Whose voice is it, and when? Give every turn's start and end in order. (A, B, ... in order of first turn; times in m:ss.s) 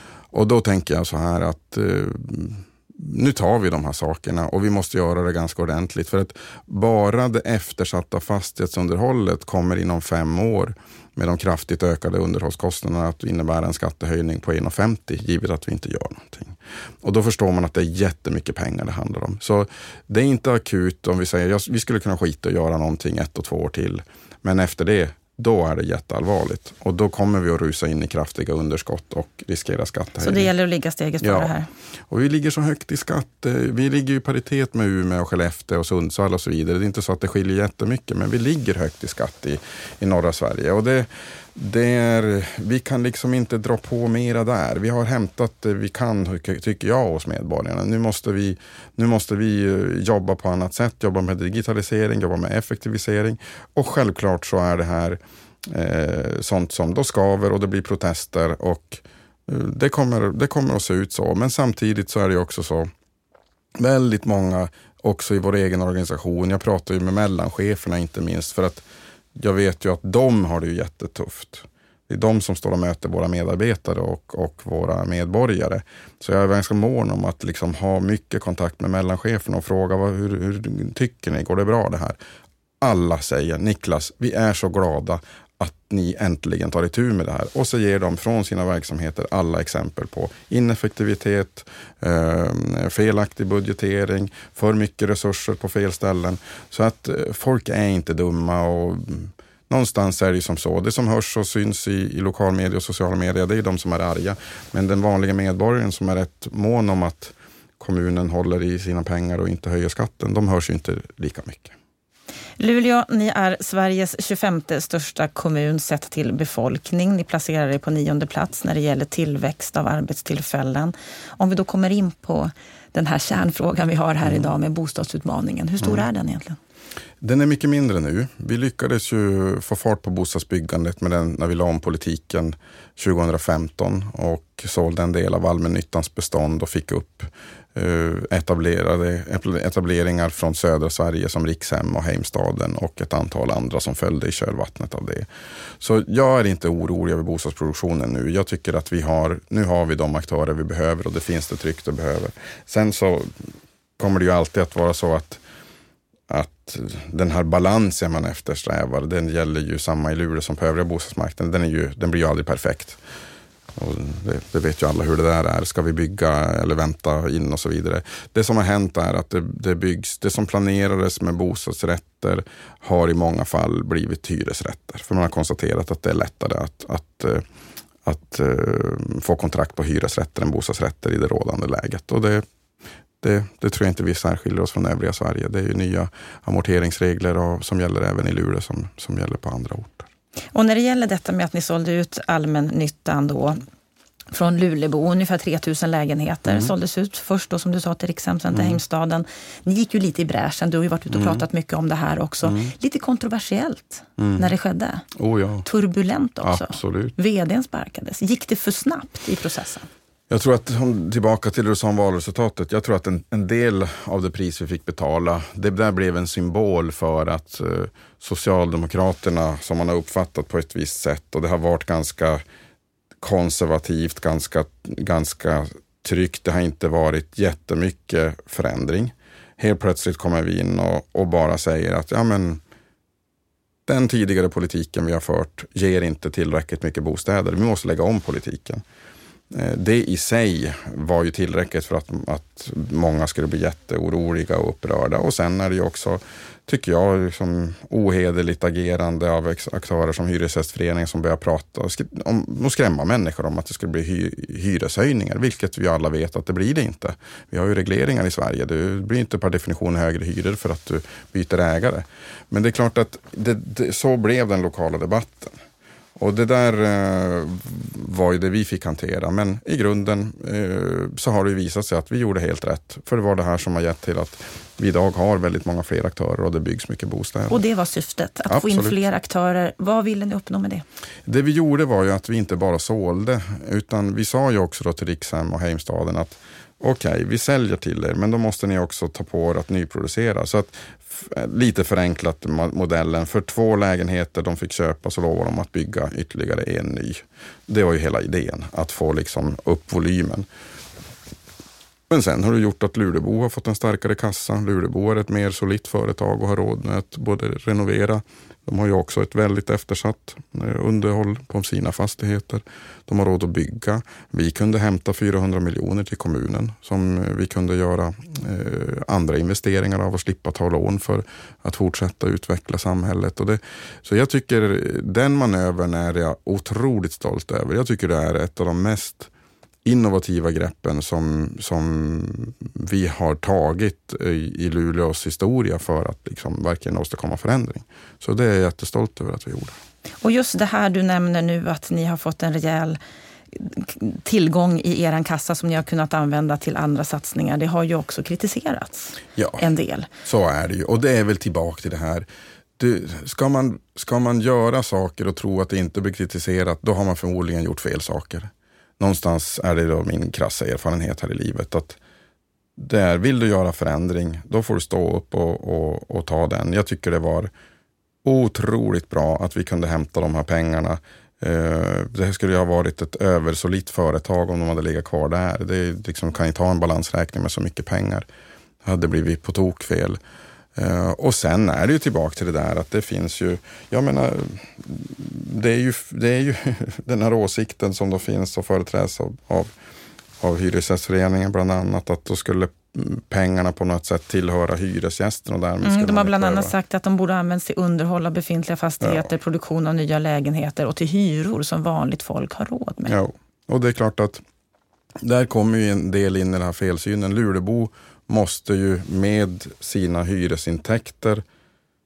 0:00.3-0:30.5 A
0:30.2-0:31.7 B
0:31.2-0:31.5 A
0:32.1-1:02.9 A
1:03.8-1:08.8 A
1:09.4-1:22.2 A
1:22.8-1:51.7 A
1:52.6-2:06.6 B
2:07.2-2:25.2 A
2:25.8-2:33.3 A
2:34.0-2:35.4 A
2:36.3-2:43.0 A
2:43.8-2:57.4 A
2:58.0-3:02.4 A
3:03.2-3:10.1 A
3:10.5-3:13.6 B
3:14.3-3:25.0 B
3:18.5-3:18.8 A
3:21.1-3:21.4 A
3:22.4-3:22.7 A
3:24.2-3:24.5 A
3:25.2-3:25.6 A
3:25.6-3:29.9 B
3:26.4-3:27.1 A
3:30.3-3:42.4 A
3:43.2-3:52.6 A
3:53.8-3:58.8 A
3:59.5-4:25.5 A
4:26.2-4:37.6 A
4:37.5-4:40.8 B
4:38.5-4:39.0 A
4:41.3-5:00.4 A
5:02.1-5:29.3 A
5:29.8-5:39.8 A
5:40.2-5:43.0 B
5:43.5-5:50.1 B
5:49.4-5:49.6 A
5:50.2-5:52.2 A
5:52.8-6:02.0 A
6:02.8-6:07.5 A
6:08.2-6:18.2 A
6:18.8-6:20.2 A
6:20.8-6:29.7 A
6:30.4-6:36.7 A
6:35.8-6:43.1 B
6:43.1-6:44.4 A
6:45.2-6:51.4 A